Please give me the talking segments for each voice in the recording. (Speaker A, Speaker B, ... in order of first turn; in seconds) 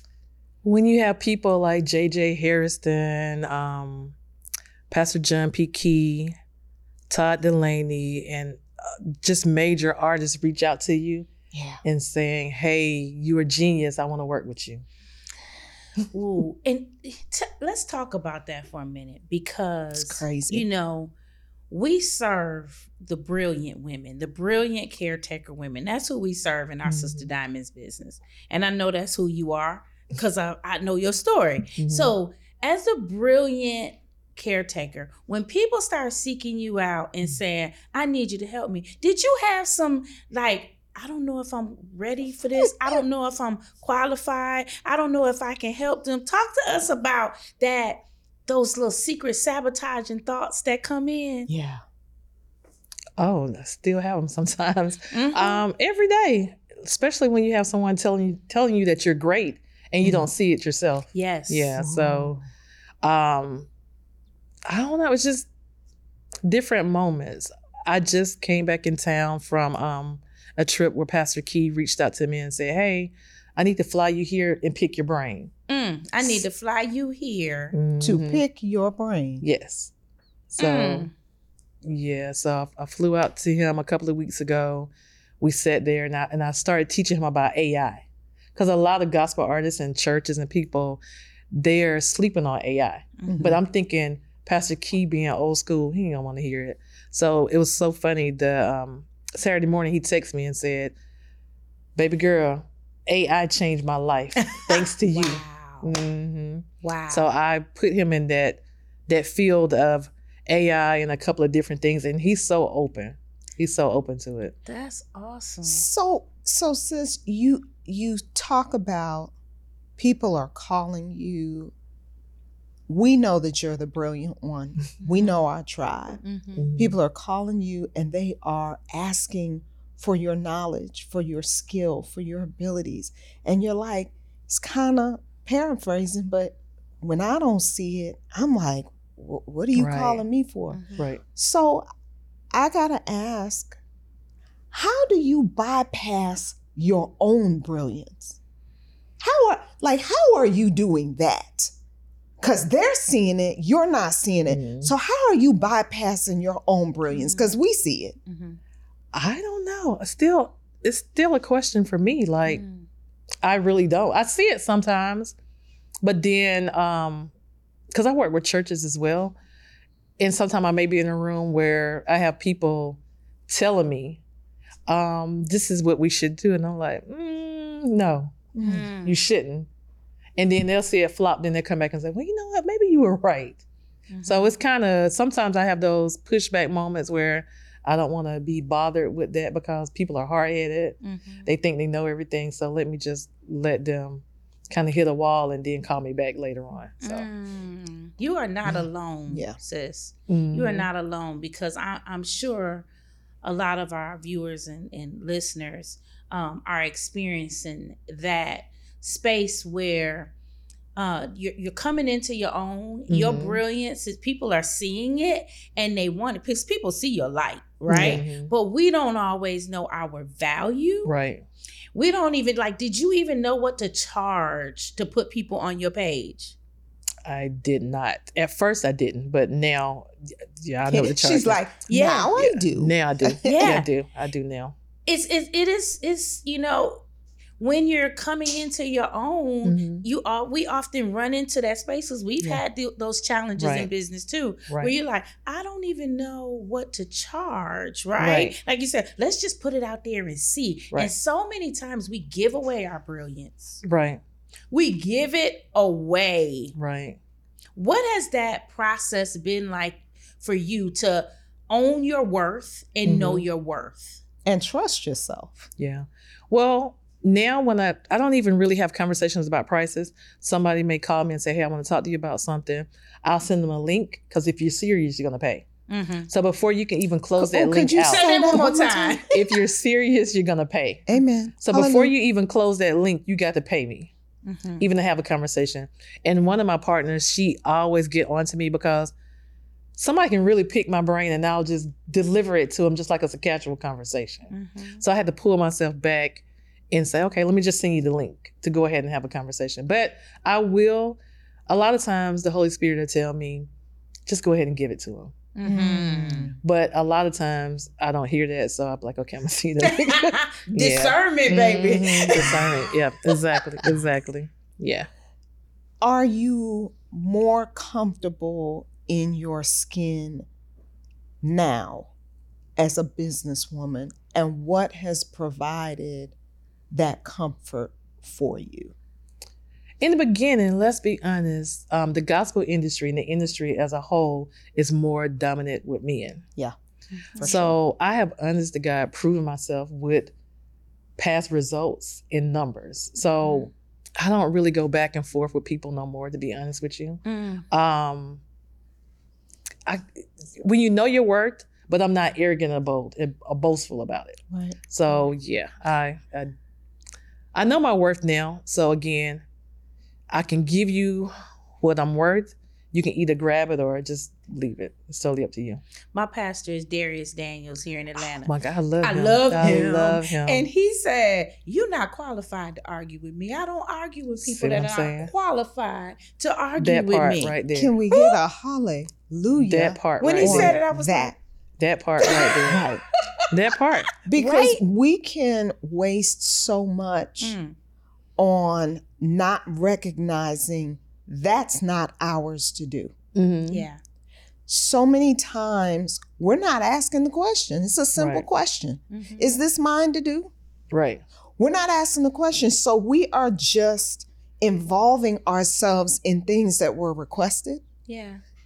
Speaker A: 0.6-4.1, 4.9-6.3, 7.1-11.3, 11.8-14.8, 26.8-27.3, 31.8-32.1, 53.2-62.4, 63.0-63.7, 64.7-65.5, 66.4-75.5, 77.7-78.4, 79.4-79.9, 80.5-81.1, 81.8-91.0, 91.5-100.9, 102.0-114.5, 126.6-127.0, 139.7-140.2, 154.5-154.9, 159.1-162.6, 163.4-165.3, 166.0-167.3, 167.9-169.4, 170.2-174.2, 174.9-178.5, 179.0-179.7, 180.4-183.6, 184.2-197.3, 200.3-200.9, 213.1-213.6, 217.9-218.5, 221.0-221.4, 227.2-230.1, 230.6-231.6, 232.3-234.7, 239.6-240.0, 243.6-243.9, 248.2-248.6, 253.8-254.2, 256.8-257.2, 263.0-263.4, 265.8-275.7, 276.3-278.6, 279.3-284.1, 284.8-289.1, 289.9-303.7, 304.3-305.3, 306.6-315.1, 330.0-336.4, 337.4-340.3, 341.2-348.4, 350.6-356.5, 357.5-359.4, 360.3-365.8, 368.4-370.7, 374.4-375.3, 376.8-377.9, 379.6-380.8, 381.8-382.9, 383.5-384.1, 393.4-393.9, 398.1-398.4, 400.9-401.2
Speaker B: 11.5-11.8, 19.9-20.6, 42.5-43.0, 51.5-51.8, 60.0-60.3, 61.8-62.4, 78.0-79.4, 93.3-93.6, 115.7-119.3, 120.0-121.7, 122.9-126.2, 126.8-141.8, 142.5-143.8, 144.7-148.4, 149.2-151.7, 152.4-158.2, 178.5-178.9, 199.3-199.6, 217.9-218.2, 230.9-233.7, 264.4-265.7, 277.4-279.6, 281.1-282.1, 305.6-306.6, 311.9-312.8, 316.0-320.5, 321.4-322.1, 322.8-326.4, 326.9-328.9, 337.4-337.8, 354.5-354.8, 369.6-369.9, 377.7-381.4, 382.2-383.0, 384.2-387.6, 388.4-393.1, 394.7-400.5, 401.6-407.8
Speaker C: 16.1-21.1, 21.7-51.5, 55.1-55.6, 61.1-61.7, 75.7-77.8, 80.6-81.1, 104.4-105.9, 106.8-107.3, 114.7-115.9, 126.2-126.7, 140.7-141.0, 157.1-157.5, 158.3-158.6, 162.5-162.9, 178.6-179.2, 184.1-184.5, 191.0-191.5, 197.0-202.9, 203.4-210.3, 210.9-221.1, 221.9-226.6, 231.9-232.3, 233.4-233.9, 235.1-237.0, 237.6-253.8, 254.7-256.7, 257.8-264.2, 275.9-276.3, 278.0-279.3, 284.4-284.9, 294.5-295.0, 305.5-306.5, 309.8-312.8, 337.3-337.7, 343.4-343.7, 347.2-347.6, 366.1-377.6, 380.2-381.4, 382.2-382.9, 384.3-384.8, 387.4-387.8, 393.7-394.0, 399.1-399.6, 408.1-408.4